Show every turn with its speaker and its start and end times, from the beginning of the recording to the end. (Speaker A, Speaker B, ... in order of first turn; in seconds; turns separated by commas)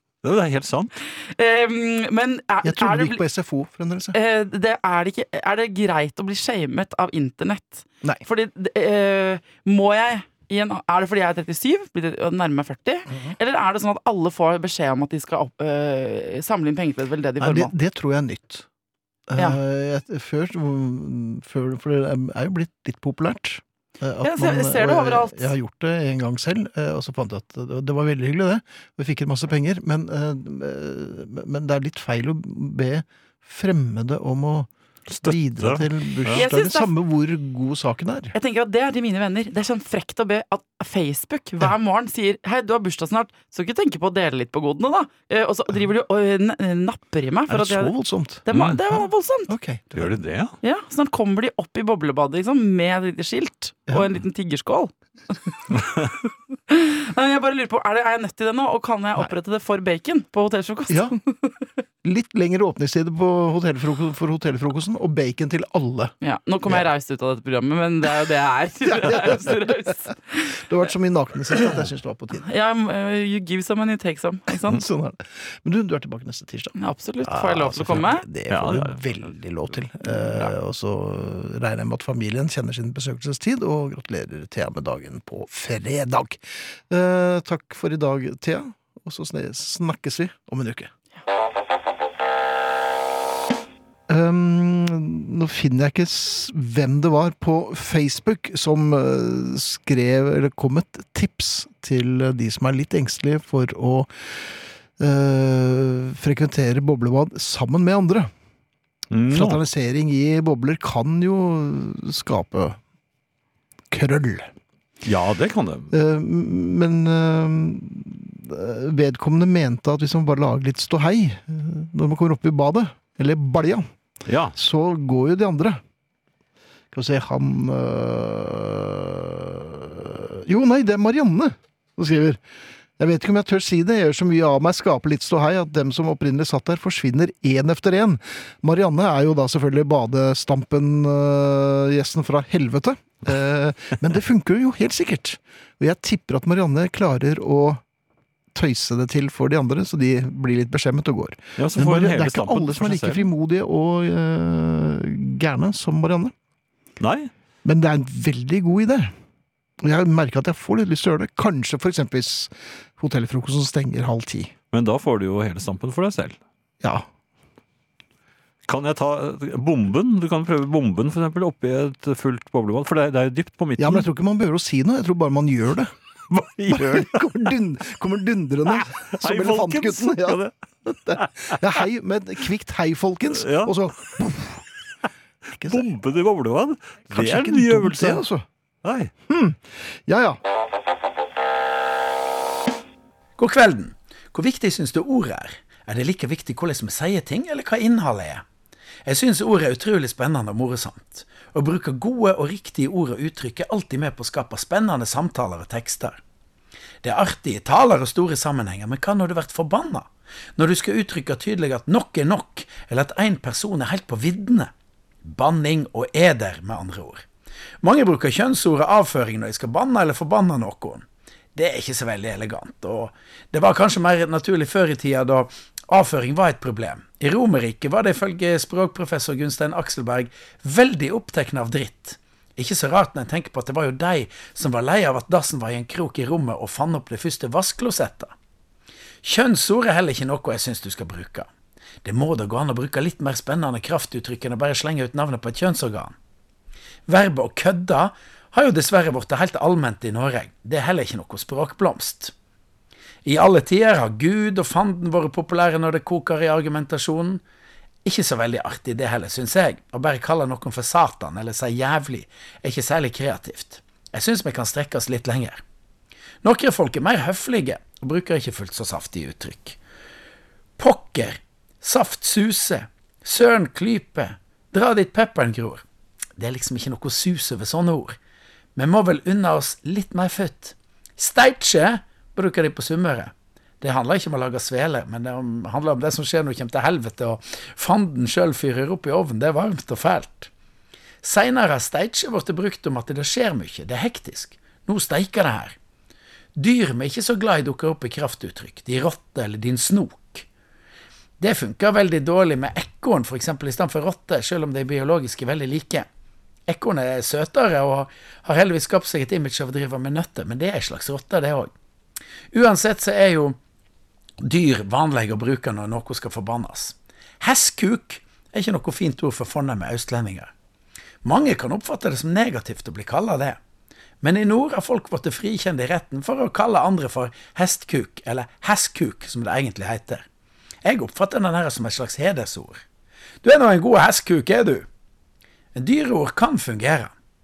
Speaker A: 0.2-1.0, Speaker B: 1.2-3.2, Speaker C: 2.6-4.2, Speaker B: 4.1-17.7, Speaker C: 13.1-13.3, Speaker C: 17.4-18.6, Speaker C: 19.3-34.7, Speaker B: 24.2-25.5, Speaker A: 35.1-36.4, Speaker C: 35.2-38.3, Speaker B: 36.3-36.9, Speaker B: 38.3-49.5, Speaker C: 47.5-50.2, Speaker A: 49.9-50.5, Speaker B: 50.6-55.8, Speaker B: 56.7-61.7, Speaker C: 60.9-61.1, Speaker C: 62.0-66.1, Speaker B: 66.2-70.6, Speaker C: 68.8-69.6, Speaker C: 70.6-72.4, Speaker B: 72.4-74.8, Speaker C: 74.5-90.9, Speaker B: 76.7-78.3, Speaker A: 78.5-79.0, Speaker C: 94.1-108.3, Speaker A: 109.1-109.6, Speaker C: 109.3-112.8, Speaker C: 113.9-114.5, Speaker A: 115.0-115.9, Speaker C: 115.9-123.8, Speaker A: 124.2-124.5, Speaker C: 124.5-125.8, Speaker C: 126.9-132.4, Speaker C: 133.0-147.8, Speaker C: 148.5-156.3, Speaker A: 151.6-153.3, Speaker A: 157.0-157.3, Speaker C: 157.6-159.1, Speaker C: 159.8-164.5, Speaker A: 164.7-166.4, Speaker A: 168.7-174.1, Speaker C: 173.8-175.9, Speaker A: 176.3-177.3, Speaker C: 176.7-184.6, Speaker A: 178.7-180.5, Speaker A: 181.1-181.7, Speaker A: 183.3-183.8, Speaker C: 185.5-185.9, Speaker A: 185.7-188.2, Speaker C: 187.1-188.4, Speaker A: 188.8-189.1, Speaker C: 189.3-190.4, Speaker D: 193.4-198.4, Speaker D: 199.0-206.2, Speaker D: 207.0-214.7, Speaker D: 215.2-217.2, Speaker D: 217.8-238.3, Speaker D: 239.2-241.5, Speaker D: 242.0-246.1, Speaker D: 247.1-252.3, Speaker D: 253.2-257.4, Speaker D: 258.0-265.6, Speaker D: 266.4-269.8, Speaker D: 270.8-275.8, Speaker D: 276.4-278.1, Speaker D: 278.8-290.5, Speaker D: 291.2-295.8, Speaker D: 296.6-300.4, Speaker D: 301.4-306.1, Speaker D: 306.7-311.7, Speaker D: 312.5-313.6, Speaker D: 314.4-320.5, Speaker D: 321.2-323.6, Speaker D: 324.2-330.2, Speaker D: 330.8-332.8, Speaker D: 333.4-334.9, Speaker D: 335.7-337.1